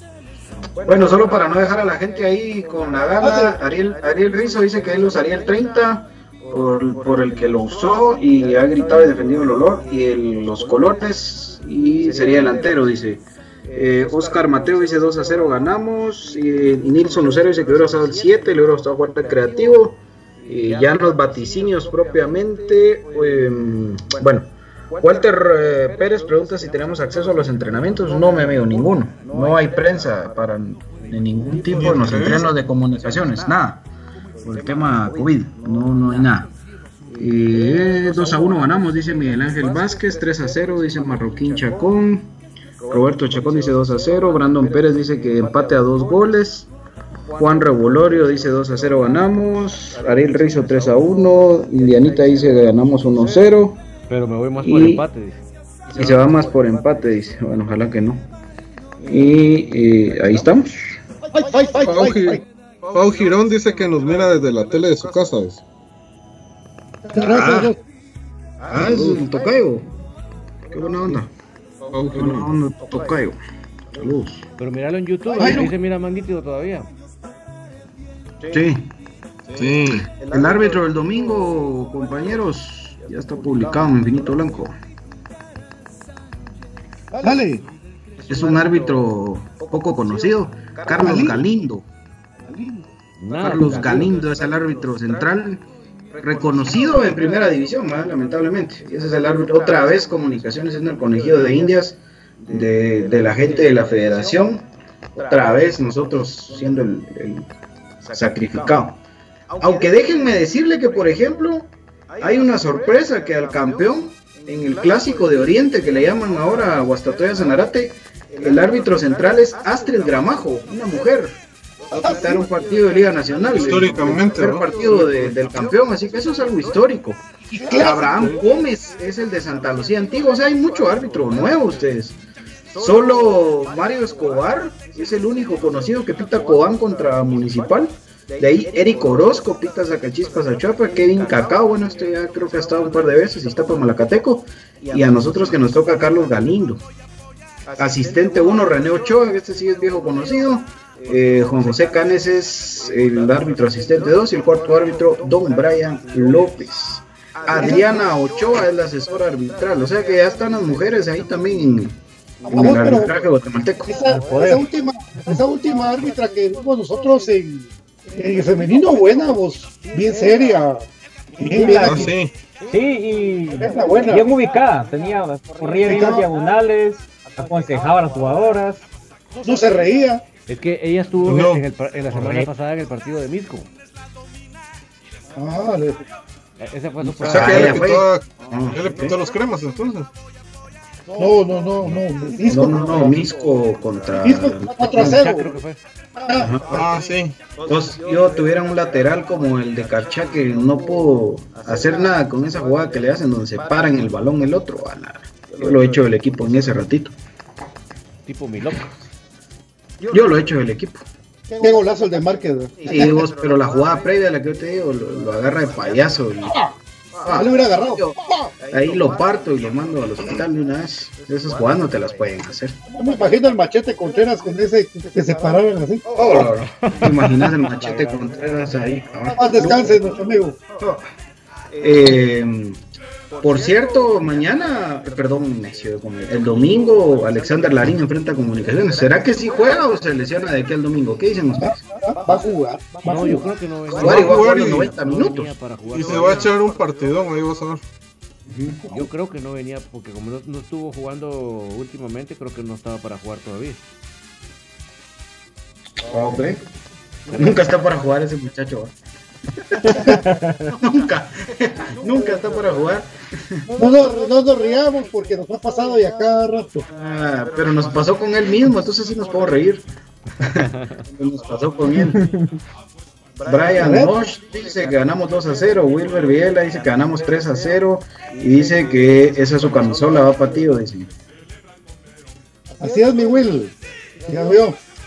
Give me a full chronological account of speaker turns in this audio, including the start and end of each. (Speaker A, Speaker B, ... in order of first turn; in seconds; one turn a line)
Speaker A: 0.8-33.8
Speaker B: 3.2-3.6
Speaker C: 31.7-32.5
Speaker A: 34.4-36.5
Speaker A: 37.2-42.3
Speaker A: 42.9-46.7
Speaker A: 47.4-53.8
Speaker D: 54.1-55.4
Speaker A: 54.6-55.0
Speaker A: 55.9-58.3
Speaker A: 59.0-61.0
Speaker B: 61.3-62.4
Speaker C: 61.8-65.6
Speaker B: 67.1-67.8
Speaker A: 67.2-67.7
Speaker A: 68.7-69.9
Speaker A: 70.7-71.3
Speaker C: 71.9-72.5
Speaker A: 72.1-73.4
Speaker A: 73.9-74.5
Speaker D: 74.6-76.9
Speaker B: 75.4-75.7
Speaker A: 78.5-78.9
Speaker C: 79.5-80.1
Speaker A: 79.8-84.7
Speaker B: 87.2-87.7
Speaker A: 88.3-91.8
Speaker B: 90.9-91.4
Speaker D: 93.2-94.1
Speaker A: 93.4-95.6
Speaker A: 96.2-104.7
Speaker A: 105.2-107.5
Speaker A: 108.1-109.0
Speaker A: 109.6-132.2
Speaker B: 121.9-122.4
Speaker C: 123.5-124.7
Speaker B: 127.5-128.1
Speaker C: 128.1-128.4
Speaker A: 132.7-146.8
Speaker A: 147.8-161.9
Speaker B: 157.5-158.0
Speaker A: 162.5-164.0
Speaker B: 162.5-163.1
Speaker B: 163.8-172.1
Speaker E: 164.3-164.6
Speaker E: 171.5-172.1
Speaker C: 171.8-172.3
Speaker E: 172.7-178.8
Speaker B: 173.6-174.3
Speaker B: 175.8-176.3
Speaker B: 179.4-180.2
Speaker D: 180.5-183.7
Speaker C: 181.2-181.6
Speaker E: 182.1-182.5
Speaker B: 185.3-186.0
Speaker D: 186.6-187.8
Speaker C: 187.0-190.1
Speaker A: 187.2-189.1
Speaker B: 191.2-193.2
Speaker A: 192.4-195.2
Speaker B: 194.2-195.5
Speaker D: 194.9-195.8
Speaker B: 196.2-196.6
Speaker A: 196.3-196.6
Speaker C: 196.7-197.4
Speaker A: 197.7-207.1
Speaker D: 208.2-208.8
Speaker A: 210.1-211.0
Speaker B: 211.5-213.2
Speaker A: 212.8-216.7
Speaker A: 217.2-218.2
Speaker B: 217.3-218.5
Speaker A: 218.7-222.8
Speaker B: 222.9-226.5
Speaker A: 226.1-229.9
Speaker D: 226.9-228.3
Speaker B: 229.3-230.6
Speaker A: 231.8-232.8
Speaker A: 233.4-241.8
Speaker B: 241.6-243.5
Speaker D: 243.0-246.5
Speaker A: 243.9-245.5
Speaker C: 243.9-244.9
Speaker C: 245.9-247.8
Speaker A: 248.5-248.8
Speaker D: 248.9-253.8
Speaker A: 256.0-256.6
Speaker A: 257.3-258.9
Speaker A: 259.6-263.7
Speaker E: 259.9-260.7
Speaker B: 263.8-266.9
Speaker A: 266.9-269.8
Speaker A: 270.4-272.3
Speaker D: 270.4-271.0
Speaker E: 271.9-272.5
Speaker A: 273.4-281.1
Speaker B: 273.8-274.1
Speaker B: 282.7-283.7
Speaker B: 284.3-284.8